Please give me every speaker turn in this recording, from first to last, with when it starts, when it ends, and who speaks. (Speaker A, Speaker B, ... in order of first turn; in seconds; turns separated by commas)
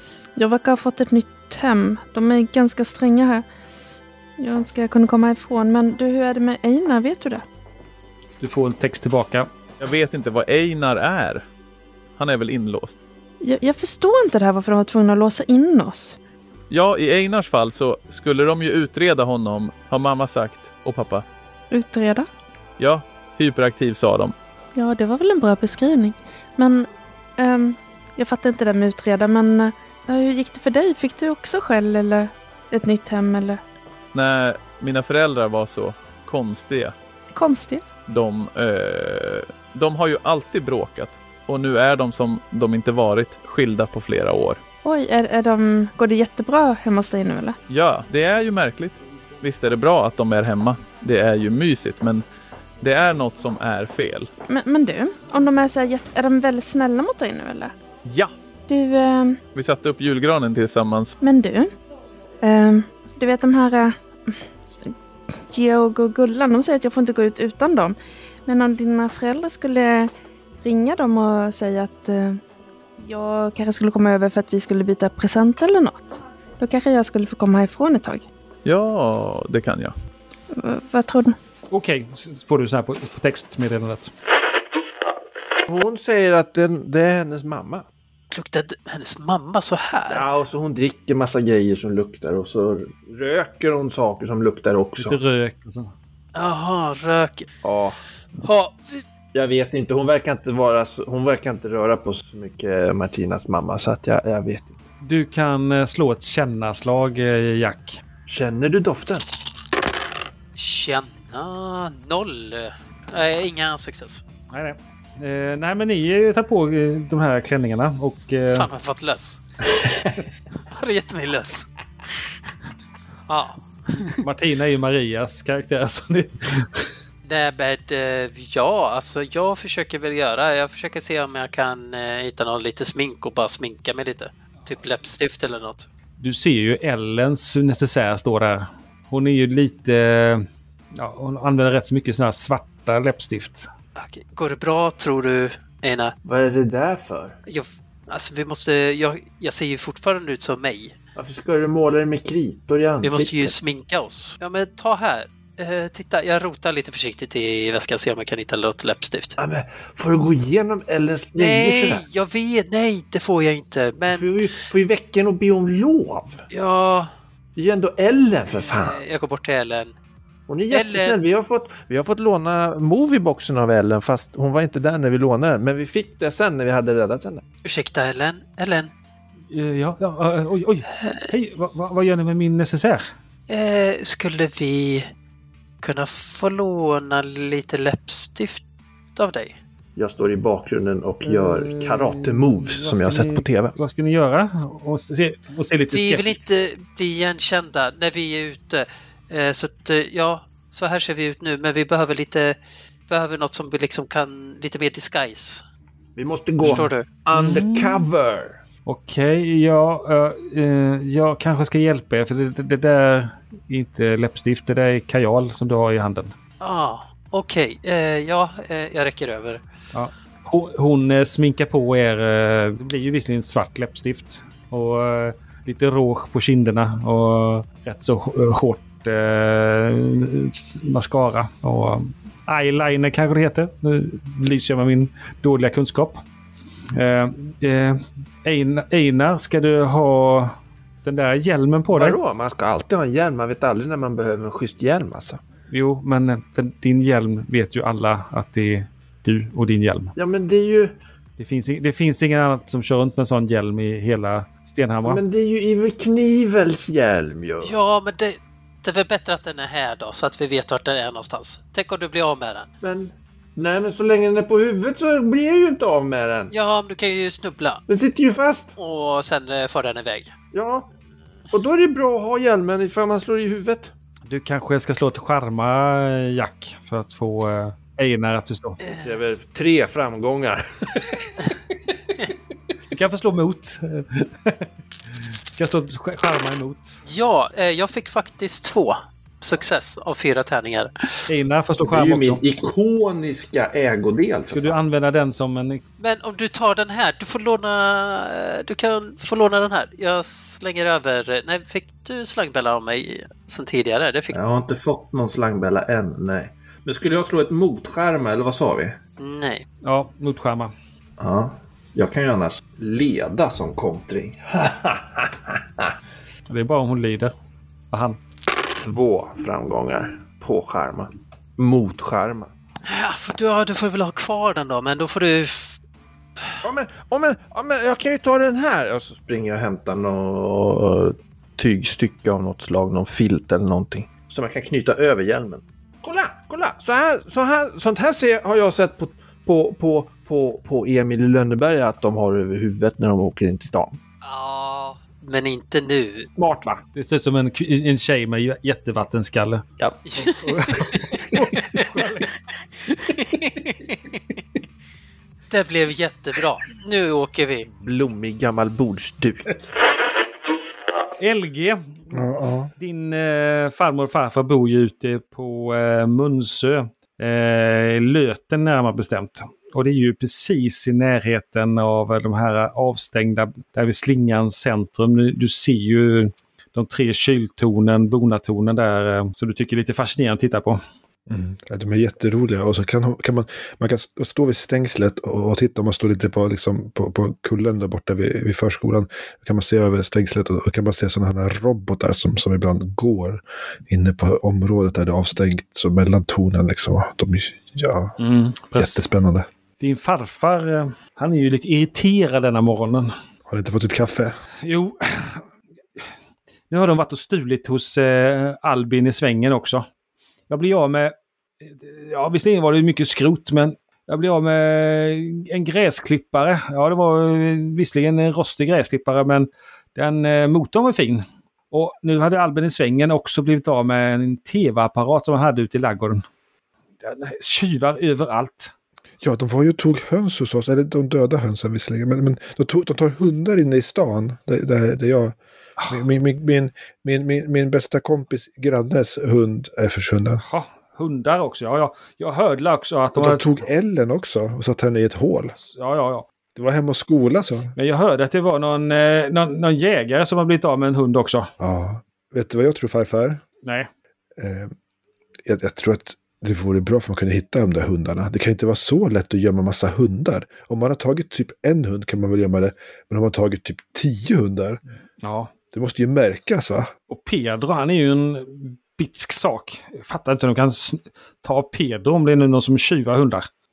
Speaker A: 0.4-3.5, Speaker A: 4.4-7.5, Speaker B: 8.4-9.5, Speaker C: 9.8-11.4, Speaker C: 12.2-13.0, Speaker A: 13.4-16.2, Speaker C: 16.7-21.2, Speaker A: 21.7-22.3, Speaker C: 22.8-24.4, Speaker A: 24.8-33.6, Speaker C: 34.1-36.9, Speaker A: 37.3-37.9, Speaker C: 38.1-44.6, Speaker A: 44.8-47.6, Speaker C: 47.7-52.2, Speaker C: 52.8-54.3, Speaker A: 54.5-57.7, Speaker C: 58.0-58.3, Speaker A: 58.7-59.4, Speaker C: 59.5-61.2, Speaker A: 61.2-61.7, Speaker A: 62.4-64.0, Speaker A: 65.5-70.1, Speaker A: 70.6-72.4, Speaker A: 73.0-78.3, Speaker C: 78.6-79.9, Speaker A: 80.5-81.4, Speaker B: 81.7-84.1, Speaker D: 85.7-87.9, Speaker E: 88.3-90.3, Speaker D: 90.1-95.2, Speaker B: 95.0-95.9, Speaker E: 96.3-97.5, Speaker D: 97.6-98.0, Speaker E: 98.4-99.0, Speaker D: 99.3-104.8, Speaker B: 105.0-108.0, Speaker D: 108.3-109.3, Speaker E: 110.6-114.2, Speaker B: 114.5-118.7, Speaker E: 118.5-119.4, Speaker E: 120.7-121.7, Speaker E: 123.3-124.2, Speaker B: 124.2-126.9, Speaker E: 127.2-135.9, Speaker B: 136.2-143.7, Speaker E: 144.0-146.1, Speaker D: 146.2-147.4, Speaker E: 147.5-151.0, Speaker D: 151.2-153.6, Speaker E: 153.0-159.4, Speaker D: 159.4-162.0, Speaker E: 161.4-164.6, Speaker D: 164.1-166.4, Speaker E: 166.5-167.1, Speaker D: 167.6-169.0, Speaker E: 168.6-169.9, Speaker D: 170.5-177.4, Speaker E: 170.7-171.2, Speaker E: 177.6-178.9, Speaker B: 179.5-183.1, Speaker E: 183.5-185.1, Speaker E: 185.8-188.6, Speaker E: 189.2-189.6, Speaker D: 190.0-193.7, Speaker B: 191.3-196.4, Speaker E: 195.9-202.6, Speaker E: 203.1-205.6, Speaker D: 206.2-208.6, Speaker B: 206.6-208.1, Speaker E: 206.6-207.1, Speaker B: 208.9-216.3, Speaker E: 216.6-219.6, Speaker B: 219.9-236.2, Speaker B: 236.9-242.2, Speaker D: 241.9-245.4, Speaker B: 245.7-250.1, Speaker D: 250.2-251.0, Speaker B: 251.4-255.2, Speaker D: 255.1-257.8, Speaker E: 257.6-262.7, Speaker D: 262.8-266.5, Speaker E: 266.5-267.8, Speaker D: 267.9-268.7, Speaker E: 268.8-270.3, Speaker D: 270.5-270.9, Speaker D: 271.5-273.9, Speaker B: 274.3-278.8, Speaker E: 278.8-279.1, Speaker D: 279.0-281.5, Speaker B: 282.9-287.0, Speaker E: 287.1-290.9, Speaker B: 291.3-292.4, Speaker D: 291.8-294.8, Speaker B: 294.5-295.8, Speaker E: 296.0-304.4, Speaker D: 304.3-309.0, Speaker E: 309.2-309.6, Speaker B: 309.8-310.7, Speaker D: 311.2-315.9, Speaker B: 316.5-317.3, Speaker B: 317.9-318.2, Speaker D: 318.8-322.5, Speaker E: 322.9-325.8, Speaker D: 326.6-344.0, Speaker E: 344.2-346.3, Speaker D: 346.4-346.8, Speaker B: 346.9-349.6, Speaker E: 350.1-351.8, Speaker B: 350.2-352.3, Speaker E: 353.1-354.1, Speaker E: 355.5-357.7, Speaker D: 357.7-359.6, Speaker B: 361.2-362.2, Speaker F: 362.1-362.7, Speaker B: 362.8-380.8, Speaker F: 381.3-398.2, Speaker B: 398.2-399.0, Speaker F: 398.8-399.5, Speaker B: 399.8-403.1, Speaker F: 403.5-404.4, Speaker B: 404.6-405.5, Speaker B: 406.7-409.9, Speaker B: 410.5-426.2, Speaker B: 427.0-428.7, Speaker F: 429.2-435.4, Speaker F: 435.9-440.4, Speaker B: 440.4-443.5, Speaker F: 443.1-445.6, Speaker B: 445.6-446.3, Speaker F: 446.6-447.8, Speaker B: 447.8-451.5, Speaker F: 451.6-453.4, Speaker B: 453.6-453.9, Speaker F: 454.4-454.7, Speaker F: 455.4-464.8, Speaker B: 465.2-465.5, Speaker F: 465.7-466.9, Speaker B: 467.1-473.5